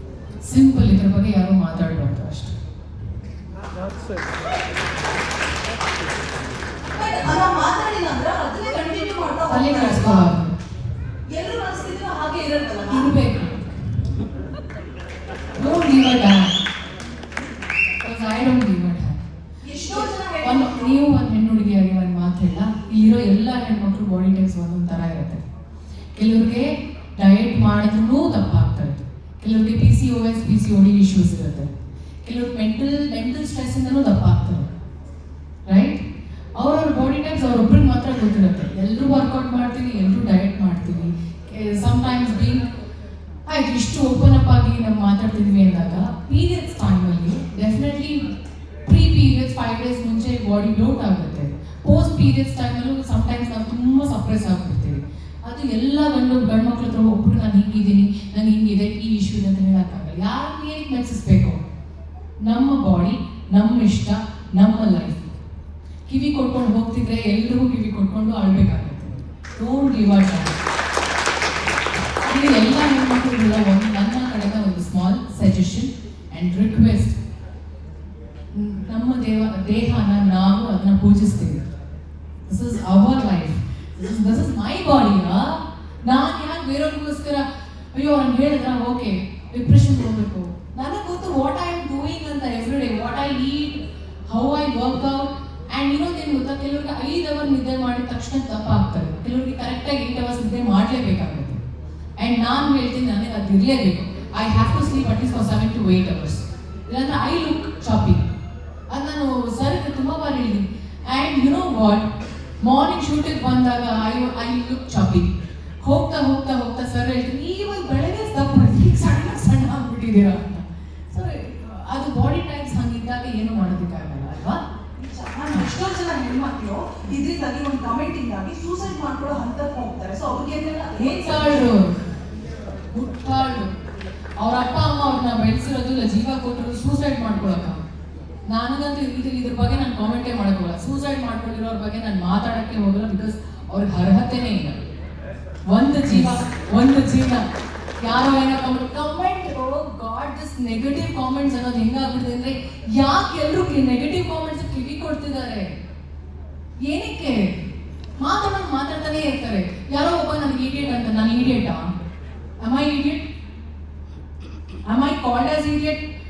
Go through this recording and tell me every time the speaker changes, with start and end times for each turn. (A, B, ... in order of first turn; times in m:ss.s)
0:00.4-0:02.5 A
0:07.0-0:10.3 B
0:09.5-0:10.6 A
0:11.3-0:13.1 B
0:12.9-0:13.7 A
0:15.6-0:16.6 A
0:18.0-0:19.2 A
0:19.6-0:21.0 B
0:20.4-0:25.4 A
0:26.2-0:31.7 A
0:32.2-0:34.7 A
0:35.7-0:36.0 A
0:36.6-0:42.7 A
0:43.5-0:48.3 A
0:48.9-1:01.6 A
1:02.5-1:05.4 A
1:06.1-1:10.6 A
1:12.2-1:17.2 A
1:18.5-1:21.6 A
1:22.5-1:27.4 A
1:28.0-1:33.8 A
1:34.3-1:41.6 A
1:42.2-1:48.3 A
1:48.9-1:52.1 A
1:52.6-1:55.3 A
1:55.8-2:04.6 A
2:05.0-2:11.7 B
2:11.0-2:12.0 A
2:12.9-2:13.7 A
2:14.4-2:17.8 A
2:18.5-2:24.8 A
2:25.7-2:27.4 A
2:28.0-2:35.7 A
2:36.9-2:37.5 A
2:38.2-2:41.9 A
2:42.6-2:43.2 A
2:44.9-2:46.0 A